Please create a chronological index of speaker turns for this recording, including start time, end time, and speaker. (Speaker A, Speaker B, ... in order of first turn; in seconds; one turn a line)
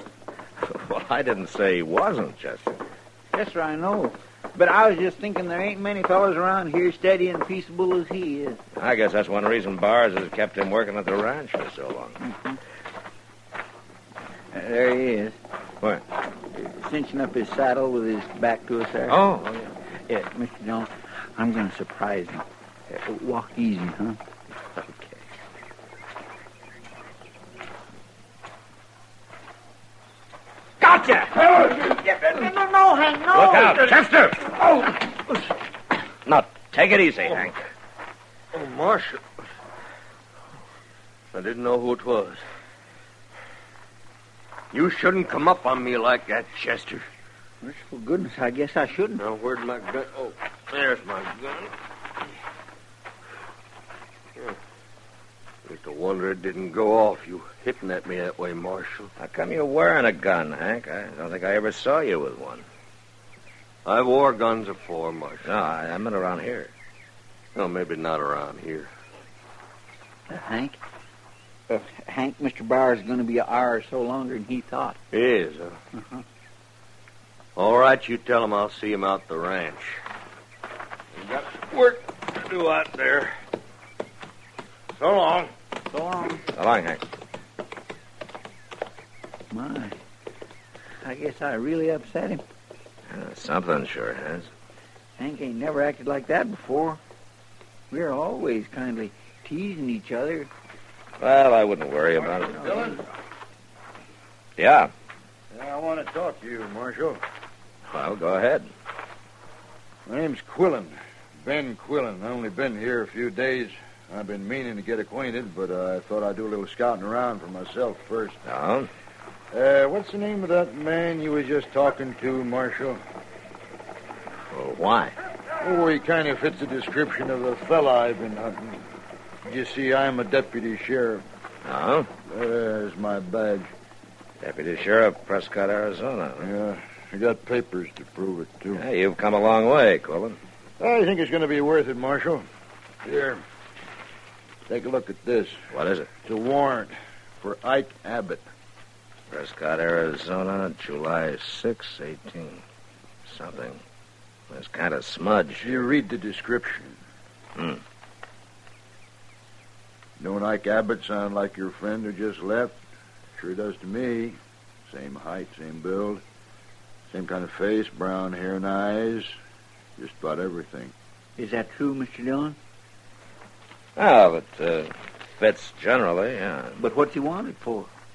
Speaker A: 0.6-2.8
Speaker B: 3.3-8.6
Speaker A: 8.8-12.2
Speaker B: 12.2-12.6
Speaker B: 14.5-15.3
Speaker B: 16.5-19.2
Speaker A: 19.1-19.7
Speaker B: 20.1-24.2
Speaker B: 24.9-25.1
Speaker B: 30.8-33.8
Speaker A: 33.4-33.9
Speaker C: 34.3-34.6
Speaker A: 36.2-37.6
Speaker C: 38.5-39.3
Speaker C: 41.3-42.4
Speaker C: 44.7-47.1
Speaker B: 47.6-49.2
Speaker C: 49.2-51.7
Speaker C: 55.6-59.1
Speaker A: 59.2-62.6
Speaker C: 63.8-65.5
Speaker A: 65.4-66.7
Speaker C: 67.5-68.9
Speaker B: 70.3-70.8
Speaker B: 71.7-75.0
Speaker C: 75.1-75.8
Speaker C: 77.5-80.0
Speaker C: 81.2-83.3
Speaker C: 85.0-85.5
Speaker B: 85.9-86.4
Speaker A: 86.5-87.0
Speaker B: 89.5-90.0
Speaker B: 91.0-92.4
Speaker A: 93.1-94.5
Speaker B: 95.2-97.0
Speaker B: 97.9-100.5
Speaker A: 101.2-102.9
Speaker D: 102.4-103.0
Speaker A: 104.6-104.9
Speaker D: 105.5-107.2
Speaker A: 107.9-108.7
Speaker D: 110.0-118.4
Speaker A: 118.5-118.9
Speaker D: 119.5-123.0
Speaker A: 124.5-125.2
Speaker D: 125.6-128.8
Speaker D: 129.4-131.2
Speaker A: 131.6-132.1
Speaker D: 132.3-133.7
Speaker A: 134.4-136.5
Speaker D: 136.4-138.8
Speaker A: 138.8-140.4
Speaker D: 140.8-142.4
Speaker D: 143.0-143.4
Speaker D: 144.7-145.6
Speaker A: 145.7-146.1
Speaker D: 146.2-148.4
Speaker A: 149.3-152.6
Speaker A: 153.2-153.8
Speaker A: 154.5-155.8
Speaker D: 155.6-157.0
Speaker A: 157.6-157.8
Speaker D: 160.2-162.8
Speaker D: 163.4-166.2
Speaker D: 167.1-169.3
Speaker D: 170.0-170.9
Speaker B: 171.4-172.6
Speaker A: 173.9-176.8
Speaker B: 176.8-177.9